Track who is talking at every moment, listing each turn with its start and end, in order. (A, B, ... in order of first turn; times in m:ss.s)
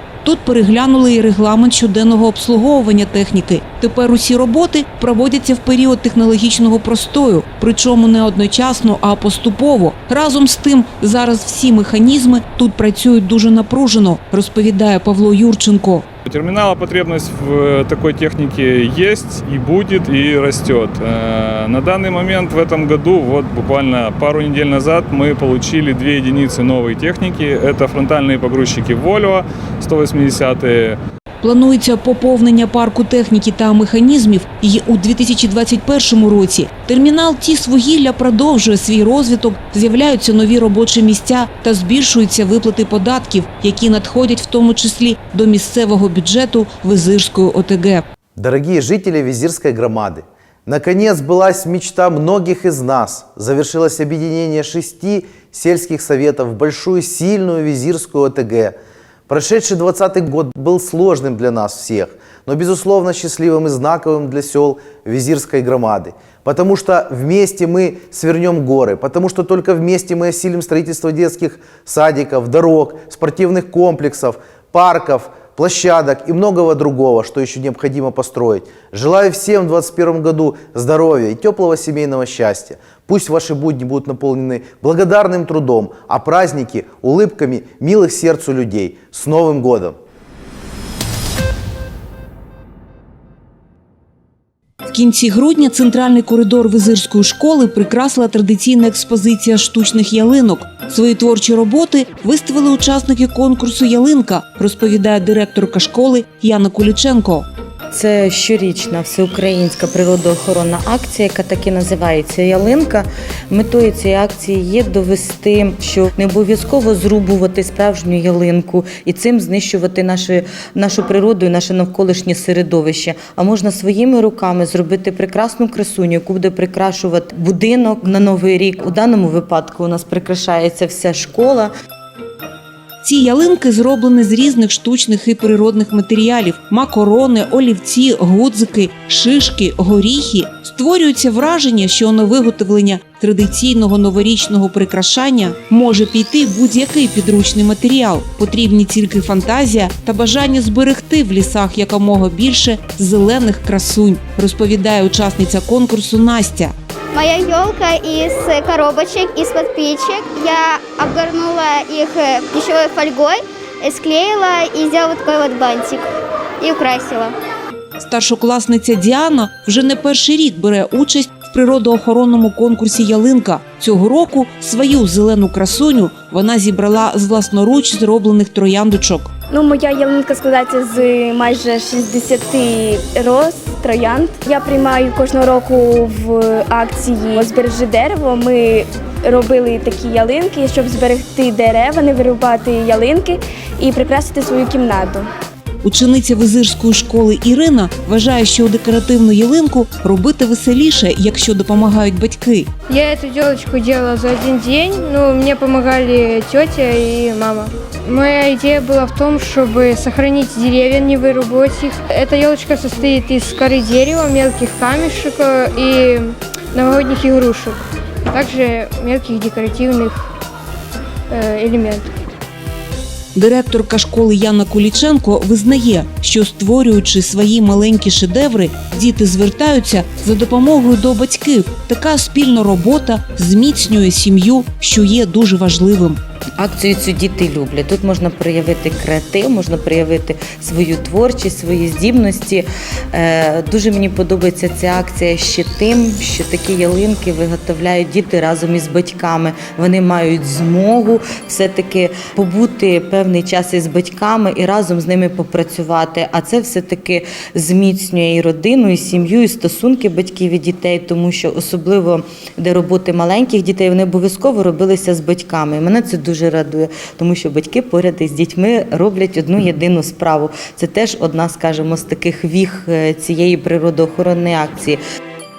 0:00.2-0:16.0 A
0:16.2-0:31.0 B
0:31.4-0:48.0 A
0:48.4-0:58.8 C
0:59.3-1:30.0 C
1:34.9-1:47.4 A
1:47.9-2:11.7 D
2:13.0-2:36.7 A
2:37.1-2:46.0 E
2:46.6-2:47.3 E
2:48.0-2:59.3 A
2:59.5-3:15.3 F
3:15.8-3:22.7 A
3:22.9-3:37.8 G
3:38.3-3:40.2 G
3:41.3-3:42.1 G
3:43.4-3:56.2 A
3:56.6-4:35.0 D